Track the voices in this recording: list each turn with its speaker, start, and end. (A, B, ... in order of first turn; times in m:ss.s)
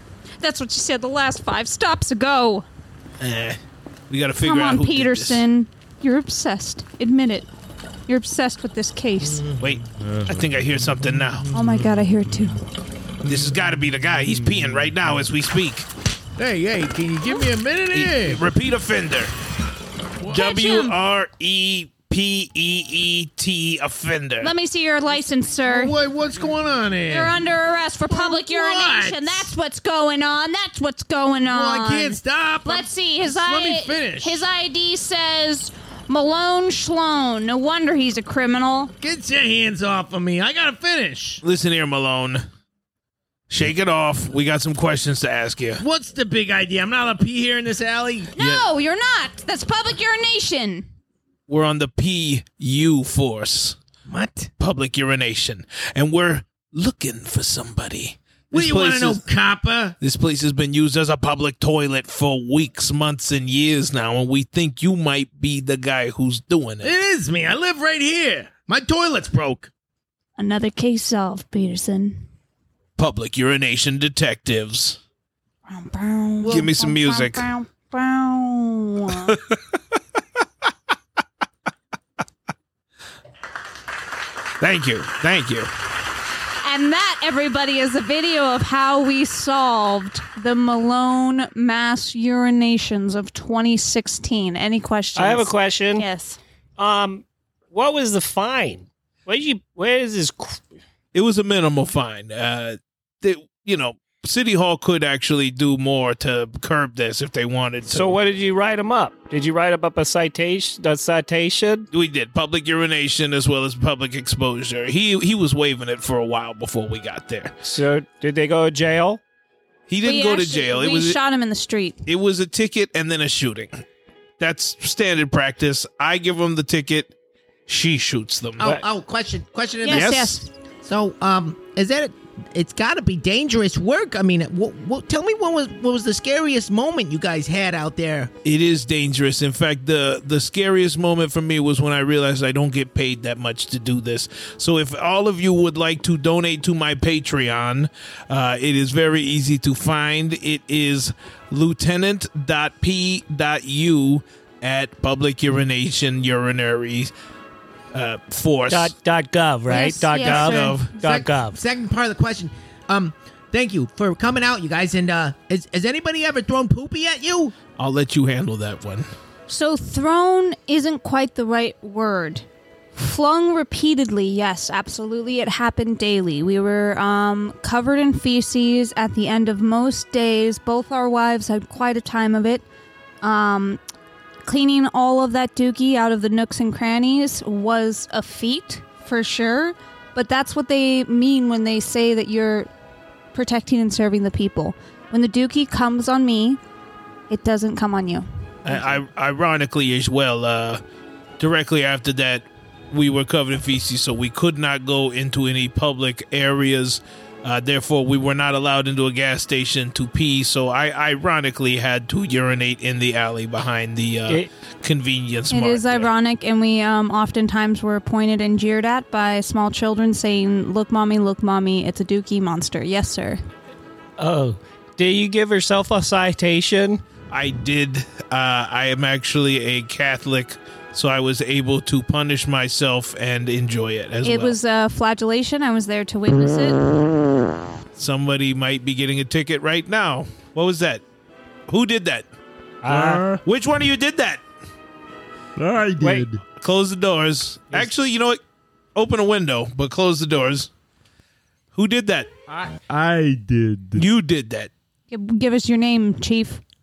0:00.4-0:02.6 A
0:03.2-0:03.6 B
0:04.1-0:05.4 B
0:04.4-0:07.5 A
0:08.1-0:09.5 A
0:09.6-0:11.5 B
0:11.5-0:12.6 A
0:13.2-0:15.9 B
0:16.4-0:18.4 C
0:17.9-0:19.3 B
0:20.2-0:24.5 B
0:20.3-0:21.0 A
0:24.4-0:25.9 A
0:25.6-0:27.4 C
0:27.0-0:38.9 A
0:28.1-0:29.5 C
0:31.4-0:34.5 C
0:39.0-0:41.4 C
0:41.4-0:42.4 B
0:43.5-0:45.8 B
0:45.8-0:48.3 C
0:48.3-0:50.9 A
0:48.4-0:48.7 B
0:51.5-0:53.8 B
0:54.1-0:54.5 C
0:54.6-0:59.2 B
0:58.5-0:59.9 C
1:00.0-1:06.9 B
1:06.8-1:09.7 C
1:10.4-1:12.2 A
1:13.0-1:15.0 B
1:15.7-1:19.4 A
1:16.4-1:16.7 C
1:16.5-1:17.5 B
1:19.1-1:19.6 B
1:24.6-1:25.7 B
1:26.6-1:36.4 A
1:35.1-1:36.1 D
1:36.8-1:40.6 D
1:41.1-1:48.2 B
1:47.9-1:51.9 D
1:51.9-1:57.5 B
1:57.6-1:59.2 D
1:59.9-2:01.2 B
2:00.0-2:02.0 A
2:02.0-2:03.8 B
2:04.4-2:07.1 B
2:07.7-2:08.8 B
2:08.6-2:10.1 C
2:09.8-2:10.5 A
2:09.9-2:10.4 B
2:10.8-2:18.3 C
2:18.4-2:37.1 B
2:37.9-2:38.9 B
2:38.7-2:41.6 D
2:39.6-2:41.0 A
2:40.0-2:40.9 B
2:40.3-2:47.5 C
2:47.8-2:49.1 B
2:49.5-3:02.6 A
3:03.2-3:03.8 A
3:04.4-3:12.7 A
3:13.3-3:16.6 A
3:17.3-3:19.0 A
3:18.6-3:20.8 B
3:21.4-3:36.1 B
3:35.5-3:43.4 A
3:44.2-3:47.0 D
3:47.3-3:54.6 B
3:54.2-3:57.1 A
3:58.0-4:01.0 B
4:01.7-4:02.3 B
4:02.8-4:03.4 D
4:02.9-4:03.4 E
4:03.4-4:04.4 B
4:05.6-4:06.4 E
4:06.0-4:06.2 D
4:06.6-4:08.4 B
4:08.9-4:10.7 B
4:11.7-4:12.3 B
4:12.5-4:14.0 E
4:14.0-4:14.7 B
4:15.1-4:16.6 A